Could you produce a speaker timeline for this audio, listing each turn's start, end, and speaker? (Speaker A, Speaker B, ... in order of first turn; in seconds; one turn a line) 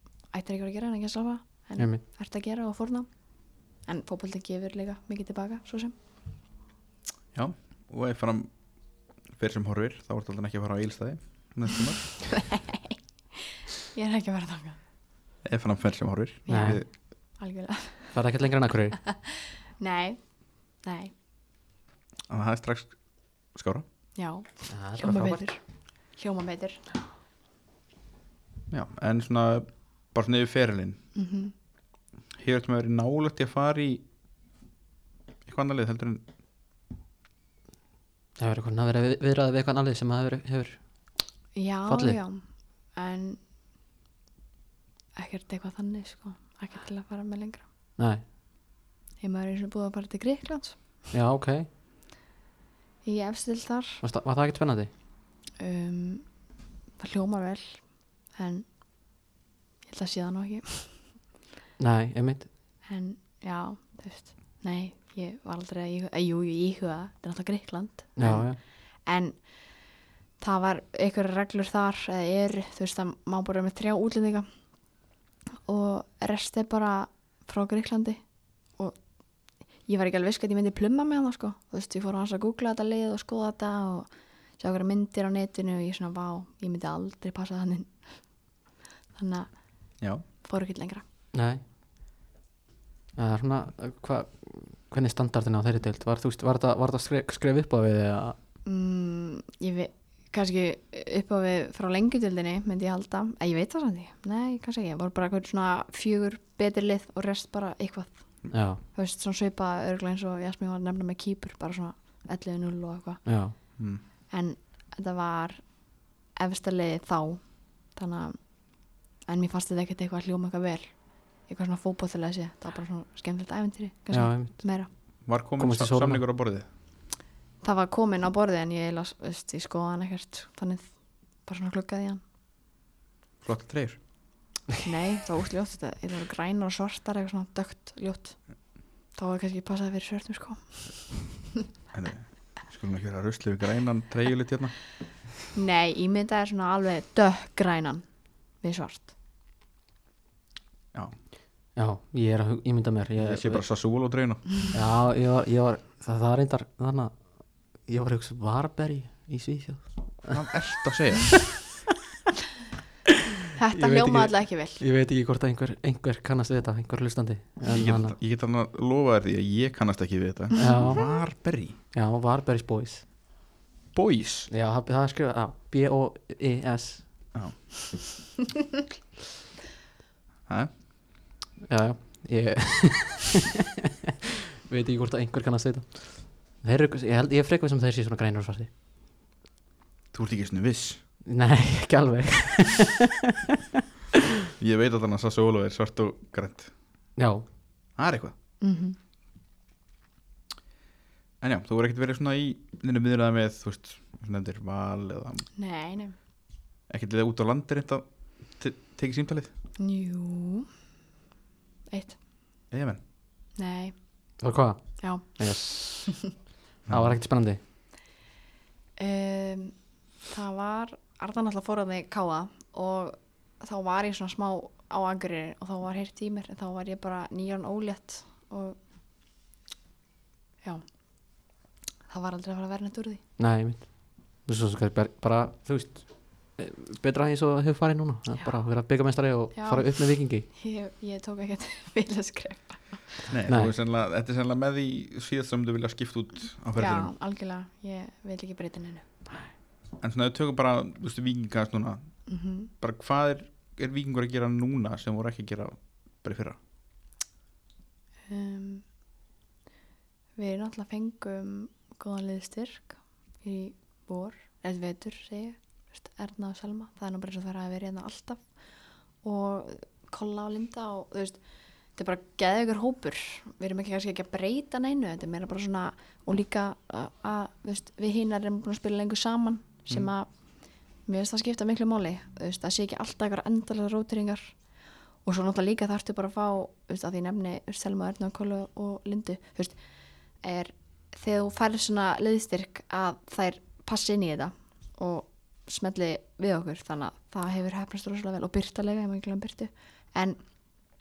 Speaker A: 0.3-6.0
Speaker B: 1.8-2.0
Speaker C: 7.3-8.6
Speaker C: 9.3-12.5
Speaker A: 12.5-12.9
Speaker A: 13.9-14.8
Speaker C: 15.4-16.9
Speaker A: 16.5-18.2
Speaker B: 16.5-16.8
Speaker B: 18.1-19.0
Speaker A: 19.1-20.2
Speaker A: 20.8-21.1
Speaker C: 22.3-23.0
Speaker C: 23.5-23.9
Speaker A: 24.2-26.8
Speaker B: 24.7-25.5
Speaker C: 28.7-31.0
Speaker A: 31.1-31.5
Speaker C: 32.4-34.0
Speaker C: 35.5-36.2
Speaker B: 38.4-40.8
Speaker A: 41.5-43.4
Speaker B: 41.9-42.2
Speaker A: 45.2-47.6
Speaker B: 48.0-48.2
Speaker A: 49.2-50.8
Speaker B: 51.1-51.7
Speaker A: 53.0-54.0
Speaker B: 54.0-54.9
Speaker A: 55.6-56.3
Speaker A: 57.0-58.7
Speaker A: 59.9-61.1
Speaker B: 61.8-62.5
Speaker A: 62.9-69.9
Speaker B: 68.2-68.6
Speaker A: 70.4-74.5
Speaker A: 75.7-78.2
Speaker A: 79.6-88.3
Speaker A: 89.1-91.0
Speaker C: 90.0-90.2
Speaker B: 91.3-91.6
Speaker B: 93.2-98.4
Speaker A: 98.7-113.2
Speaker B: 108.5-108.8
Speaker B: 113.2-113.6
Speaker C: 113.8-114.0
Speaker A: 114.3-118.6
Speaker A: 119.2-124.9
Speaker B: 124.1-124.7
Speaker C: 125.2-126.7
Speaker B: 125.6-126.2
Speaker A: 127.6-132.2
Speaker C: 133.4-134.0
Speaker A: 134.8-141.3
Speaker C: 141.9-144.9
Speaker A: 145.5-148.1
Speaker A: 148.6-149.1
Speaker B: 151.8-153.6
Speaker C: 153.2-154.7
Speaker B: 154.7-160.4
Speaker C: 160.2-161.7
Speaker A: 163.6-164.8
Speaker B: 163.7-168.2
Speaker C: 167.7-171.8
Speaker B: 170.6-171.1
Speaker B: 171.9-173.1
Speaker C: 173.9-174.5
Speaker B: 174.5-177.1
Speaker C: 177.3-177.9
Speaker C: 180.5-180.8
Speaker B: 181.7-183.5
Speaker B: 184.7-188.7
Speaker C: 190.1-191.0
Speaker B: 191.2-193.1
Speaker C: 194.6-196.7
Speaker B: 197.2-197.5
Speaker C: 198.0-198.3
Speaker A: 198.6-199.0
Speaker C: 201.4-205.5
Speaker A: 205.6-206.2
Speaker C: 206.9-209.5
Speaker A: 209.8-210.7
Speaker A: 211.9-212.2
Speaker C: 212.7-213.0
Speaker A: 213.6-213.9
Speaker B: 214.4-216.3
Speaker A: 215.0-216.0
Speaker C: 216.9-217.2
Speaker B: 216.9-217.6
Speaker A: 219.0-228.8
Speaker A: 230.6-230.9
Speaker A: 232.1-233.2
Speaker B: 233.4-240.5
Speaker A: 239.5-243.2
Speaker C: 243.3-247.1
Speaker B: 243.5-243.7
Speaker A: 246.8-249.1
Speaker C: 250.0-256.6
Speaker A: 252.3-252.7
Speaker A: 258.3-258.9
Speaker A: 260.4-268.5
Speaker A: 269.2-271.4
Speaker A: 271.9-280.3
Speaker A: 281.0-284.6
Speaker A: 285.2-289.8
Speaker A: 290.4-300.4